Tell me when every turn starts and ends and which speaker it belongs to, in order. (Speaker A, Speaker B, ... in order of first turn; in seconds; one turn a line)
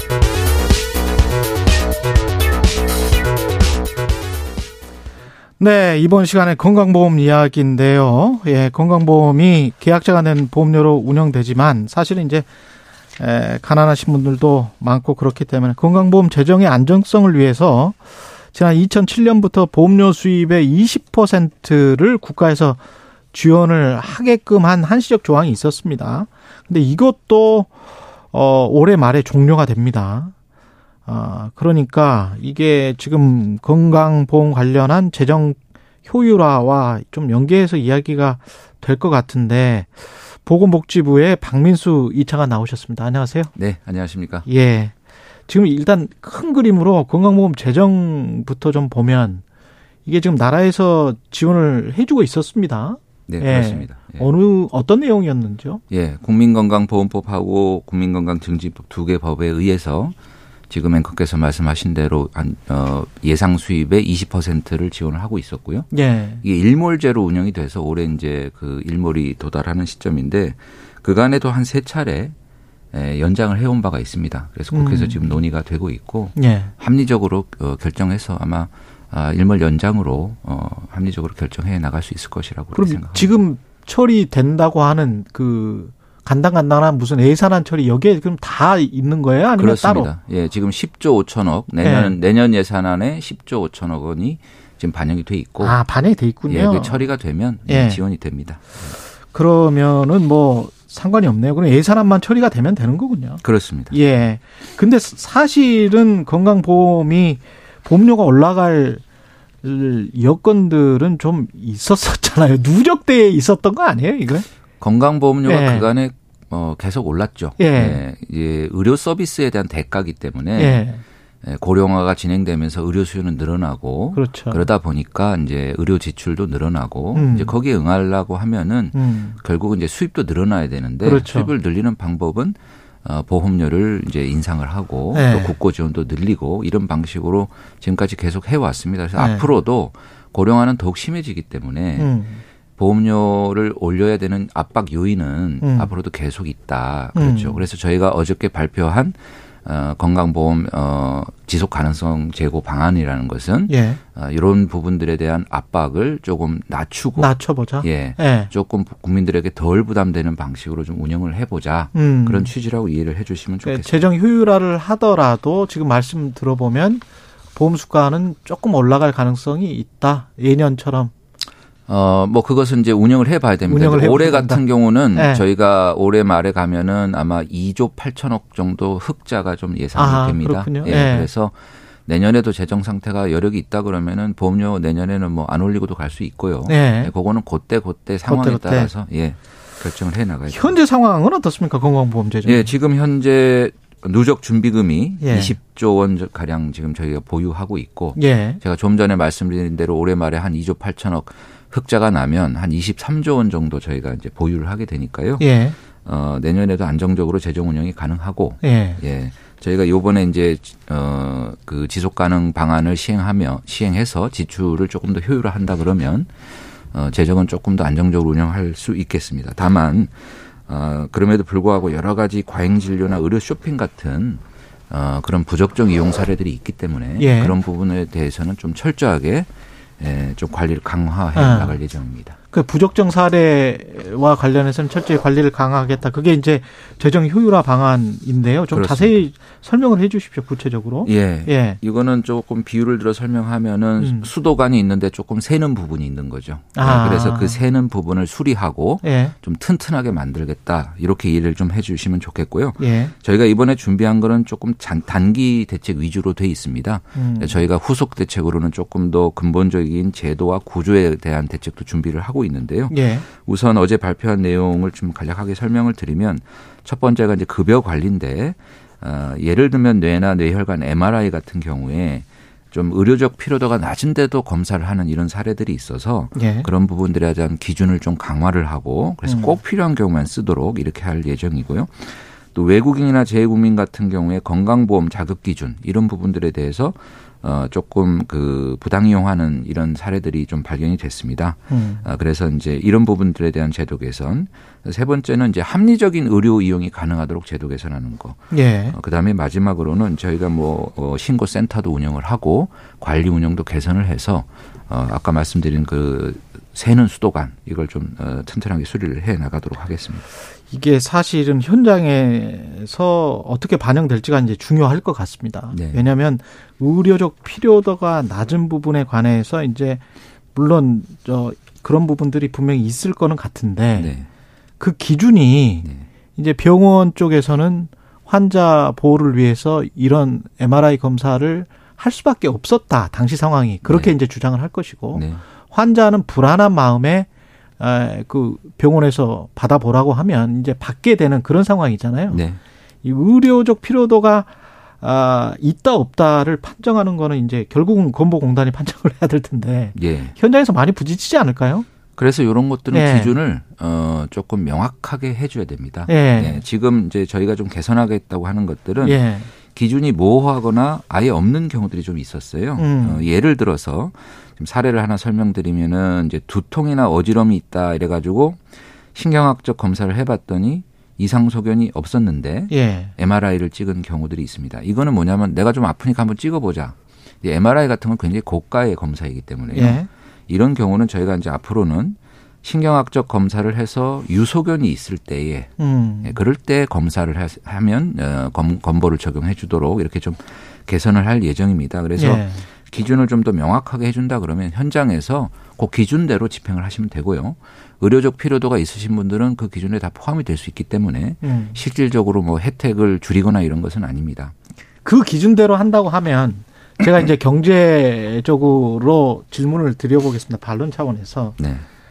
Speaker A: 5.6-12.5
Speaker A: 13.2-18.0
Speaker A: 18.5-22.8
Speaker A: 23.3-27.7
Speaker A: 28.3-30.3
Speaker A: 31.1-43.5
Speaker B: 43.5-44.5
Speaker A: 44.5-44.9
Speaker A: 45.5-49.4
Speaker A: 50.0-55.8
Speaker B: 53.3-54.3
Speaker B: 55.9-60.1
Speaker B: 60.7-65.9
Speaker A: 65.9-66.4
Speaker B: 66.4-72.3
Speaker B: 72.9-83.4
Speaker A: 74.7-75.4
Speaker A: 76.3-76.7
Speaker A: 82.7-90.1
Speaker B: 89.6-95.8
Speaker A: 91.8-92.1
Speaker A: 95.6-97.1
Speaker B: 96.5-99.0
Speaker A: 97.7-98.0
Speaker A: 99.3-109.0
Speaker B: 103.4-104.0
Speaker A: 109.6-114.5
Speaker B: 114.8-120.8
Speaker A: 115.4-115.9
Speaker A: 117.6-118.0
Speaker A: 120.5-121.0
Speaker B: 121.4-142.1
Speaker A: 124.1-124.7
Speaker A: 127.1-127.5
Speaker A: 128.9-129.4
Speaker A: 131.0-131.5
Speaker A: 135.1-135.6
Speaker A: 139.2-139.5
Speaker A: 141.9-142.4
Speaker B: 142.8-164.1
Speaker A: 145.6-145.9
Speaker A: 147.1-147.6
Speaker A: 153.7-154.0
Speaker A: 157.2-158.5
Speaker A: 161.9-162.5
Speaker A: 163.6-171.1
Speaker B: 171.9-181.5
Speaker A: 173.7-175.4
Speaker A: 179.9-181.3
Speaker B: 182.1-190.8
Speaker A: 186.7-187.1
Speaker A: 188.3-188.9
Speaker A: 190.5-192.7
Speaker B: 192.4-205.4
Speaker A: 195.2-195.6
Speaker A: 198.2-198.6
Speaker A: 205.4-205.8
Speaker B: 206.0-216.3
Speaker A: 208.6-209.0
Speaker B: 216.9-220.1
Speaker B: 220.7-232.3
Speaker A: 227.2-227.6
Speaker A: 231.3-231.8
Speaker A: 232.5-241.8
Speaker B: 238.7-239.2
Speaker B: 241.0-310.2
Speaker A: 244.0-244.3
Speaker A: 246.7-247.6
Speaker A: 249.0-249.3
Speaker A: 252.8-253.1
Speaker A: 257.1-257.6
Speaker A: 262.9-263.2
Speaker A: 276.3-276.7
Speaker A: 279.2-279.5
Speaker A: 291.7-292.1
Speaker A: 298.5-298.9
Speaker A: 310.7-320.0
Speaker B: 315.7-316.0
Speaker A: 320.5-324.2
Speaker B: 323.9-324.3
Speaker A: 324.8-337.3
Speaker B: 333.8-334.1
Speaker B: 335.1-335.4
Speaker A: 337.8-342.4
Speaker B: 342.3-342.6
Speaker A: 343.0-351.9
Speaker B: 349.9-350.3
Speaker B: 352.2-359.2
Speaker A: 352.9-353.3
Speaker A: 356.1-356.6
Speaker A: 359.0-359.5
Speaker B: 359.7-368.6
Speaker A: 362.8-363.2
Speaker B: 369.1-385.7
Speaker A: 372.7-373.1
Speaker A: 379.7-380.1
Speaker A: 385.8-386.4
Speaker B: 386.2-404.5
Speaker A: 392.1-392.6
Speaker A: 401.4-401.8
Speaker A: 405.0-411.6
Speaker B: 411.6-411.8